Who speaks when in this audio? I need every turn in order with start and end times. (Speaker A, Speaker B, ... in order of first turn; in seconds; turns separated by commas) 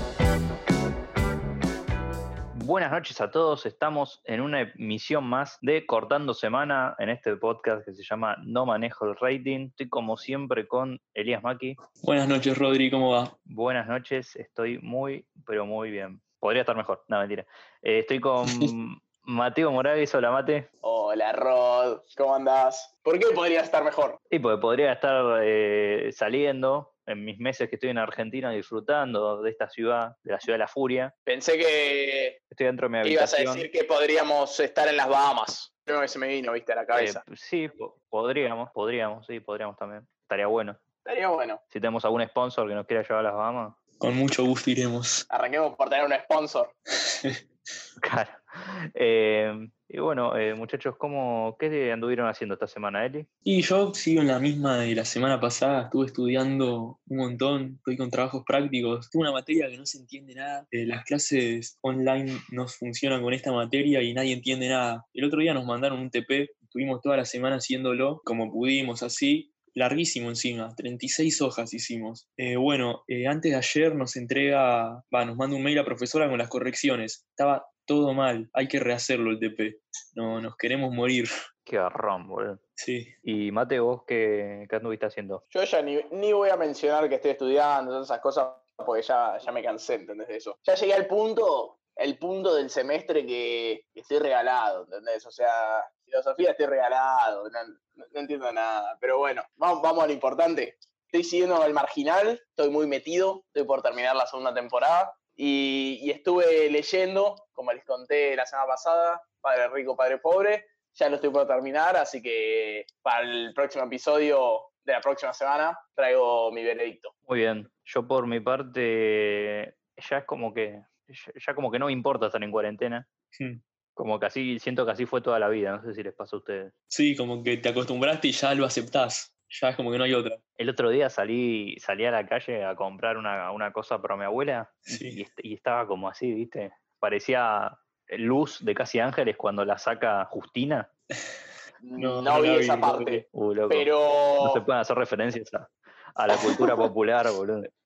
Speaker A: 2.5-11.8, Speaker B: 12.0-13.3, Speaker A: 13.4-20.7, Speaker B: 18.4-18.7, Speaker C: 20.8-24.2, Speaker A: 24.3-31.1, Speaker C: 31.3-32.4, Speaker A: 32.5-33.7, Speaker C: 33.0-37.2, Speaker A: 36.9-40.8, Speaker C: 41.0-41.6, Speaker A: 41.7-43.8, Speaker B: 44.0-45.2, Speaker C: 45.3-46.7, Speaker B: 47.0-47.4, Speaker A: 48.0-53.3, Speaker B: 53.4-81.3, Speaker A: 81.7-82.6, Speaker B: 82.8-83.1, Speaker A: 83.2-85.4, Speaker C: 85.5-117.1, Speaker A: 117.3-123.1, Speaker B: 123.3-123.6, Speaker A: 124.0-126.7, Speaker B: 126.9-130.4, Speaker A: 130.6-140.9, Speaker B: 134.9-135.2, Speaker C: 141.8-144.6, Speaker B: 142.0-143.2, Speaker A: 143.3-147.7